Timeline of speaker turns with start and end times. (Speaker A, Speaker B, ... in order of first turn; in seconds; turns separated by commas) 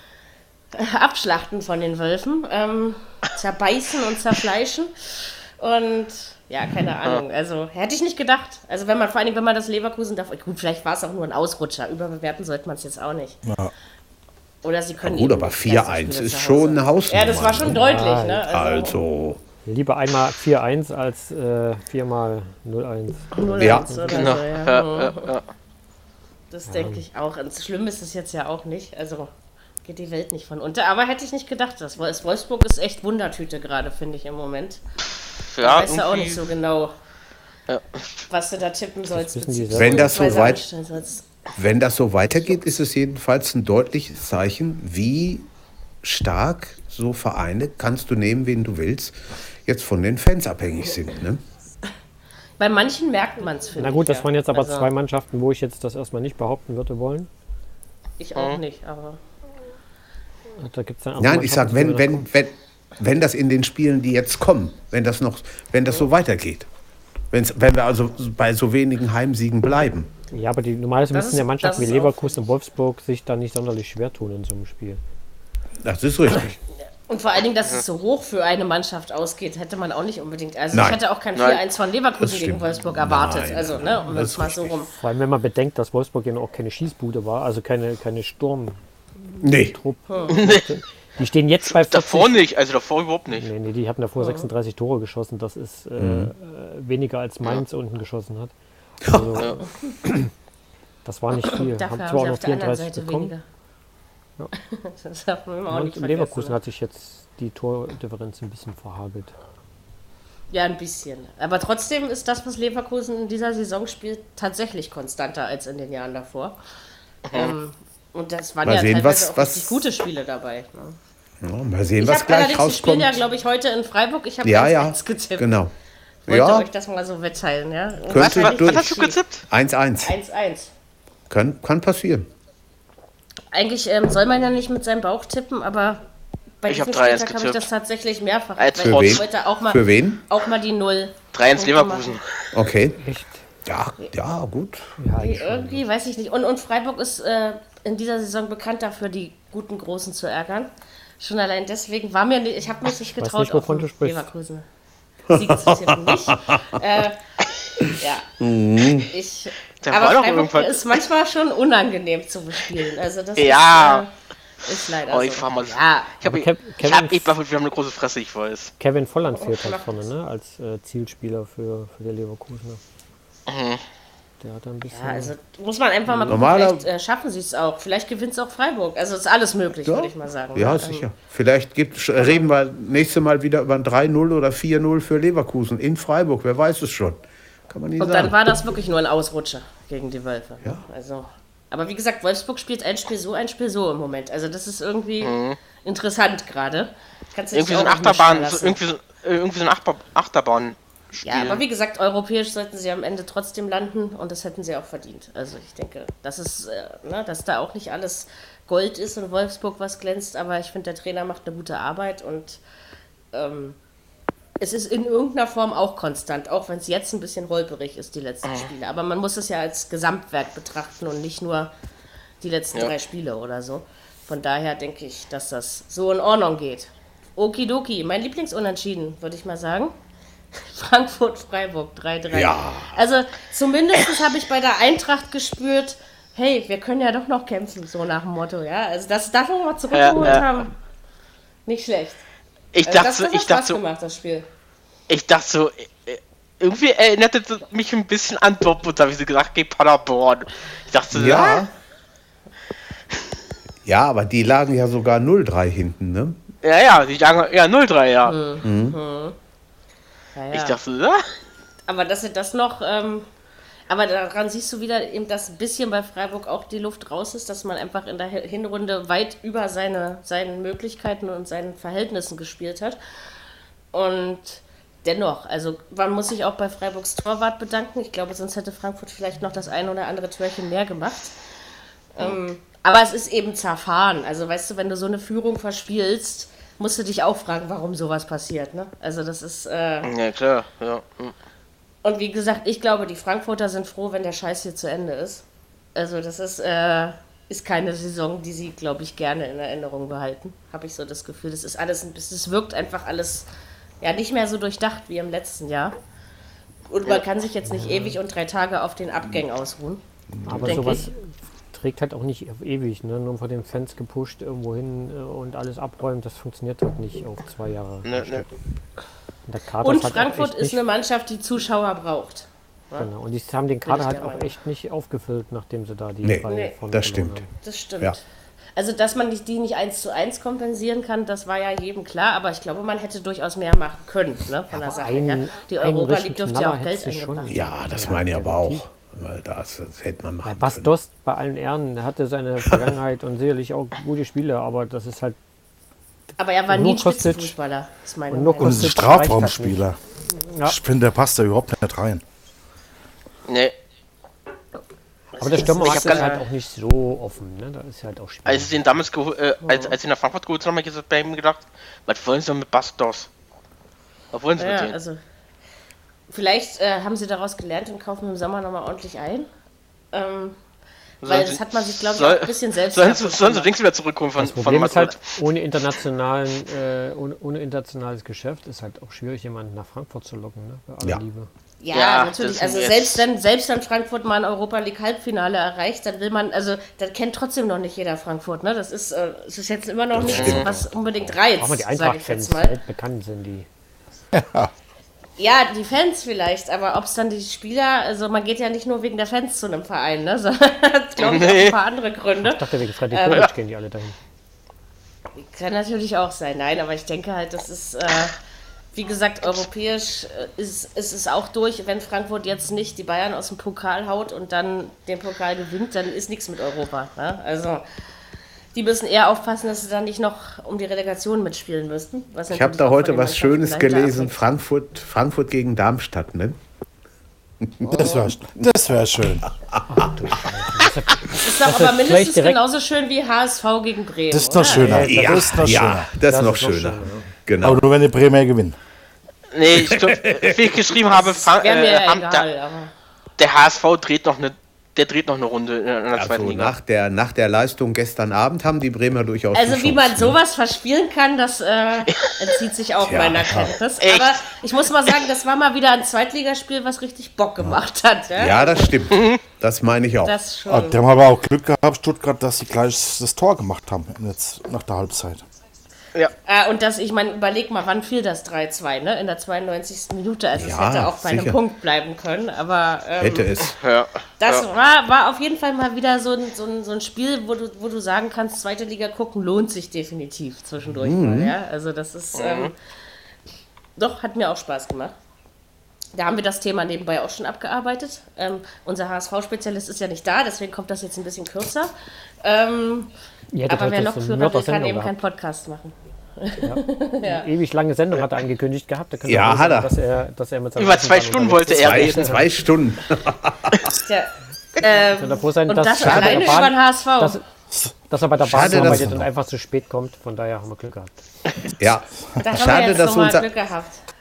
Speaker A: 0.7-13.4, Speaker B: 13.4-13.7, Speaker A: 14.6-19.0, Speaker C: 15.0-17.9, Speaker D: 17.6-18.4, Speaker C: 18.5-19.4, Speaker D: 19.6-24.4, Speaker A: 23.3-25.3, Speaker C: 23.6-23.9, Speaker E: 24.1-25.4, Speaker A: 26.5-29.3, Speaker D: 26.7-27.0, Speaker A: 29.8-34.8, Speaker E: 35.5-36.4, Speaker A: 35.6-36.9, Speaker E: 37.7-38.0, Speaker A: 38.3-41.2, Speaker D: 39.1-40.5, Speaker C: 39.7-40.6, Speaker C: 41.5-45.5, Speaker C: 46.0-51.4, Speaker A: 52.6-54.9, Speaker D: 53.8-57.3, Speaker A: 58.2-59.2, Speaker D: 60.6-62.3, Speaker C: 61.2-66.7, Speaker C: 67.3-70.1, Speaker D: 70.3-75.0, Speaker A: 71.1-72.3, Speaker C: 75.8-76.5, Speaker A: 77.1-84.9, Speaker C: 80.7-81.0, Speaker E: 81.3-81.6, Speaker C: 82.2-84.8, Speaker D: 84.9-92.4, Speaker C: 89.4-89.8, Speaker A: 90.1-90.4, Speaker E: 90.3-90.7, Speaker E: 91.7-93.5, Speaker D: 93.3-99.7, Speaker A: 94.2-94.5, Speaker C: 96.0-96.3, Speaker C: 99.0-99.4, Speaker D: 101.0-103.3, Speaker A: 101.5-103.4, Speaker A: 104.6-106.5, Speaker D: 105.7-109.3, Speaker A: 110.5-116.5, Speaker E: 117.3-117.5, Speaker A: 117.3-121.0, Speaker C: 118.6-119.8, Speaker C: 121.4-123.2, Speaker A: 122.0-125.5, Speaker C: 124.4-125.7, Speaker A: 126.3-129.2, Speaker C: 126.3-126.7, Speaker C: 128.1-128.9, Speaker E: 128.1-129.4, Speaker C: 129.5-130.1, Speaker A: 130.0-130.7, Speaker C: 131.3-132.3, Speaker A: 133.5-136.0, Speaker A: 136.6-142.2, Speaker E: 136.7-137.6, Speaker E: 138.6-139.2, Speaker C: 138.8-140.2, Speaker E: 141.3-142.3, Speaker C: 142.5-143.0, Speaker D: 142.9-143.4, Speaker C: 143.6-145.0, Speaker D: 145.0-145.8, Speaker A: 145.2-154.7, Speaker D: 153.2-154.2, Speaker A: 155.3-157.2, Speaker C: 155.3-156.7, Speaker A: 157.8-158.3, Speaker C: 158.4-159.1, Speaker A: 158.9-164.1, Speaker E: 159.8-161.0, Speaker E: 163.4-164.0, Speaker A: 164.6-166.2, Speaker E: 165.0-168.7, Speaker D: 166.2-167.3, Speaker D: 168.8-172.8, Speaker A: 169.3-169.8, Speaker E: 173.5-173.8, Speaker D: 174.4-175.3, Speaker A: 174.9-181.1, Speaker D: 176.1-176.4, Speaker C: 176.2-176.9, Speaker C: 179.8-188.4, Speaker A: 182.2-182.5, Speaker A: 188.0-198.8, Speaker E: 195.2-195.6, Speaker E: 197.5-201.6, Speaker A: 201.2-212.6, Speaker A: 213.3-213.8, Speaker A: 214.6-221.7, Speaker E: 218.4-218.7, Speaker A: 222.4-229.9, Speaker A: 230.5-240.7, Speaker C: 232.3-232.9, Speaker E: 239.9-240.5, Speaker A: 241.7-242.2, Speaker E: 242.7-243.8, Speaker A: 242.8-244.4, Speaker E: 245.1-251.6, Speaker C: 251.1-251.7, Speaker C: 253.8-256.4, Speaker E: 256.6-258.3, Speaker A: 258.2-259.4, Speaker C: 258.6-259.0, Speaker A: 260.3-260.8, Speaker E: 260.5-261.3, Speaker A: 261.9-263.3, Speaker A: 263.9-273.0, Speaker A: 273.9-281.3, Speaker A: 282.1-290.1, Speaker E: 290.0-291.3, Speaker A: 292.0-303.5, Speaker A: 304.0-305.9, Speaker A: 306.9-310.0, Speaker D: 307.6-308.2, Speaker D: 310.4-318.5, Speaker A: 310.6-311.1, Speaker E: 318.0-318.4, Speaker D: 319.5-320.8, Speaker A: 319.8-323.1, Speaker D: 322.9-327.5, Speaker A: 323.8-324.5, Speaker C: 326.2-327.4, Speaker A: 326.4-326.7, Speaker A: 327.6-328.2, Speaker A: 328.8-337.7, Speaker D: 334.7-338.8, Speaker C: 337.5-340.9, Speaker D: 340.4-345.4, Speaker A: 346.4-349.0, Speaker D: 346.7-347.5, Speaker D: 348.3-349.8, Speaker B: 348.6-350.0, Speaker D: 350.4-350.8, Speaker B: 350.6-352.2, Speaker E: 353.5-353.7, Speaker D: 355.4-358.8, Speaker A: 355.4-356.4, Speaker E: 355.8-356.3, Speaker E: 358.4-363.3, Speaker A: 359.6-359.9, Speaker E: 364.3-364.9, Speaker A: 364.6-365.2, Speaker A: 366.3-369.5, Speaker A: 370.1-370.6, Speaker E: 371.2-375.2, Speaker A: 371.2-373.7, Speaker D: 374.4-381.5, Speaker A: 381.8-392.8, Speaker E: 381.9-383.2, Speaker C: 390.1-390.8, Speaker E: 390.2-390.7, Speaker D: 391.6-393.7, Speaker B: 394.3-394.7, Speaker A: 395.4-403.5, Speaker E: 401.2-401.8, Speaker D: 402.4-404.1, Speaker A: 405.4-408.3, Speaker A: 408.9-417.8, Speaker A: 418.7-424.4, Speaker C: 422.5-426.6, Speaker C: 427.6-428.2, Speaker B: 427.8-429.5, Speaker C: 429.7-430.3, Speaker D: 429.9-432.6, Speaker A: 431.3-435.0, Speaker B: 434.3-436.1, Speaker D: 434.7-437.3, Speaker C: 434.9-437.8, Speaker B: 437.6-438.8, Speaker E: 439.5-442.4, Speaker C: 439.7-440.7, Speaker A: 441.1-442.9, Speaker E: 443.4-446.7, Speaker C: 446.1-450.4, Speaker A: 449.5-459.0, Speaker E: 452.1-452.5, Speaker C: 453.0-453.7, Speaker E: 454.0-454.4, Speaker C: 458.3-460.4, Speaker E: 459.1-459.4, Speaker A: 460.2-461.0, Speaker B: 460.7-465.4, Speaker A: 466.4-473.6, Speaker C: 470.5-471.6, Speaker C: 473.2-473.7, Speaker E: 473.6-474.7, Speaker A: 474.4-482.7, Speaker C: 480.9-481.5, Speaker E: 482.3-482.7, Speaker A: 484.0-485.1, Speaker A: 486.1-491.9, Speaker A: 492.4-493.1, Speaker D: 493.5-495.1, Speaker A: 493.7-497.5, Speaker D: 496.6-502.5, Speaker C: 499.2-499.9, Speaker E: 500.8-502.3, Speaker C: 501.8-503.9, Speaker A: 504.0-507.4, Speaker D: 504.8-507.4, Speaker C: 506.0-506.6, Speaker D: 508.1-511.2, Speaker C: 508.4-509.2, Speaker B: 508.6-509.2, Speaker C: 511.8-513.5, Speaker A: 512.4-514.0